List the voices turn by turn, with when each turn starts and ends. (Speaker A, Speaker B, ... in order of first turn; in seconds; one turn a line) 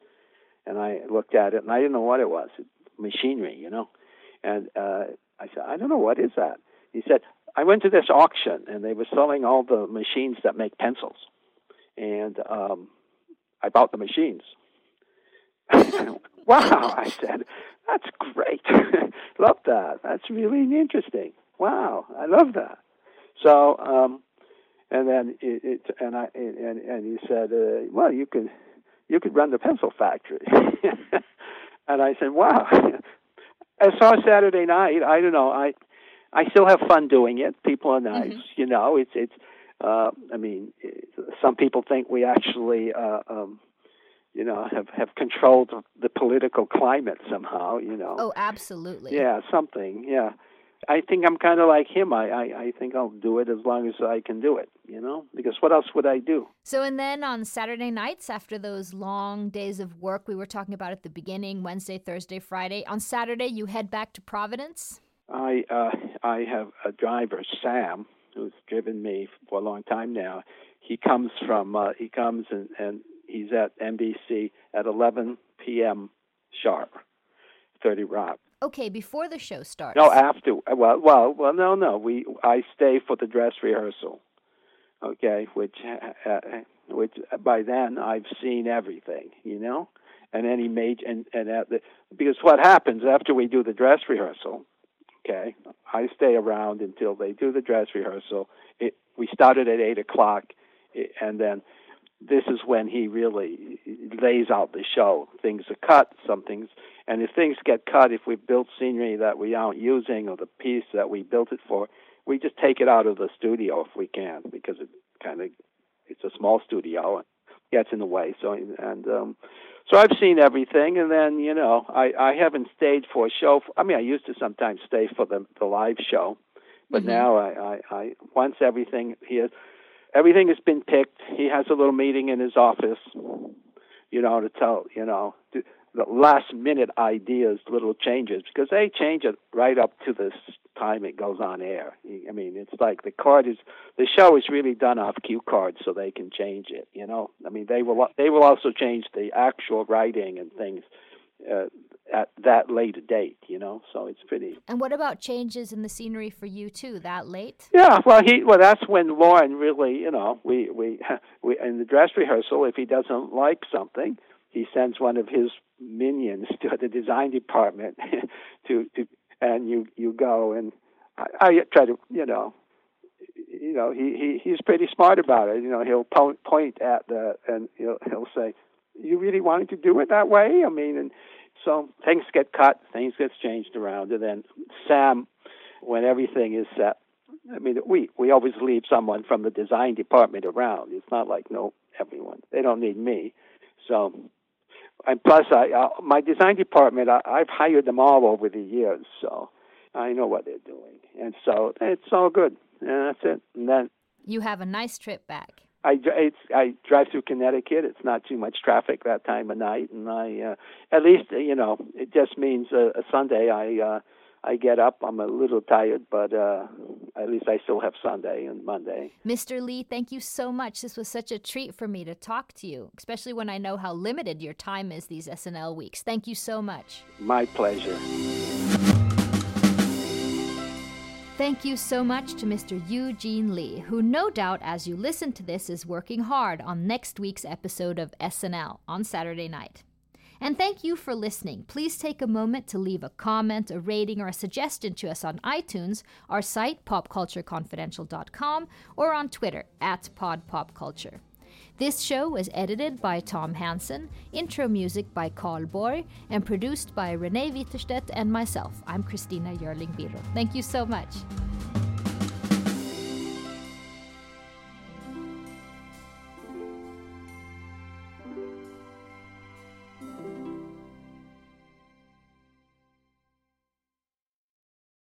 Speaker A: 0.7-3.9
Speaker A: 4.4-11.3
Speaker A: 12.0-12.9
Speaker A: 13.6-14.5
Speaker A: 15.7-22.8
Speaker A: 23.4-24.2
Speaker A: 24.9-28.5
Speaker A: 29.1-31.2
Speaker A: 31.9-33.0
Speaker A: 33.8-35.7
Speaker A: 36.3-43.6
Speaker A: 44.3-48.2
Speaker B: 48.2-49.2
Speaker A: 49.1-50.3
Speaker A: 50.9-56.5
Speaker B: 56.6-65.0
Speaker A: 65.3-76.9
Speaker A: 77.8-78.4
Speaker B: 78.6-80.2
Speaker A: 80.0-84.2
Speaker A: 85.0-94.7
Speaker A: 95.2-101.6
Speaker A: 102.2-115.5
Speaker A: 116.1-119.4
Speaker A: 119.9-126.4
Speaker A: 126.9-129.5
Speaker B: 126.9-127.3
Speaker A: 130.1-133.6
Speaker A: 134.1-150.8
Speaker A: 151.4-154.6
Speaker B: 154.7-157.7
Speaker A: 157.7-172.5
Speaker A: 173.3-185.3
Speaker A: 185.8-194.3
Speaker A: 195.1-203.9
Speaker B: 204.3-205.6
Speaker A: 205.8-219.1
Speaker B: 219.2-227.1
Speaker A: 227.2-228.0
Speaker B: 231.4-239.8
Speaker B: 240.4-251.2
Speaker B: 251.8-261.3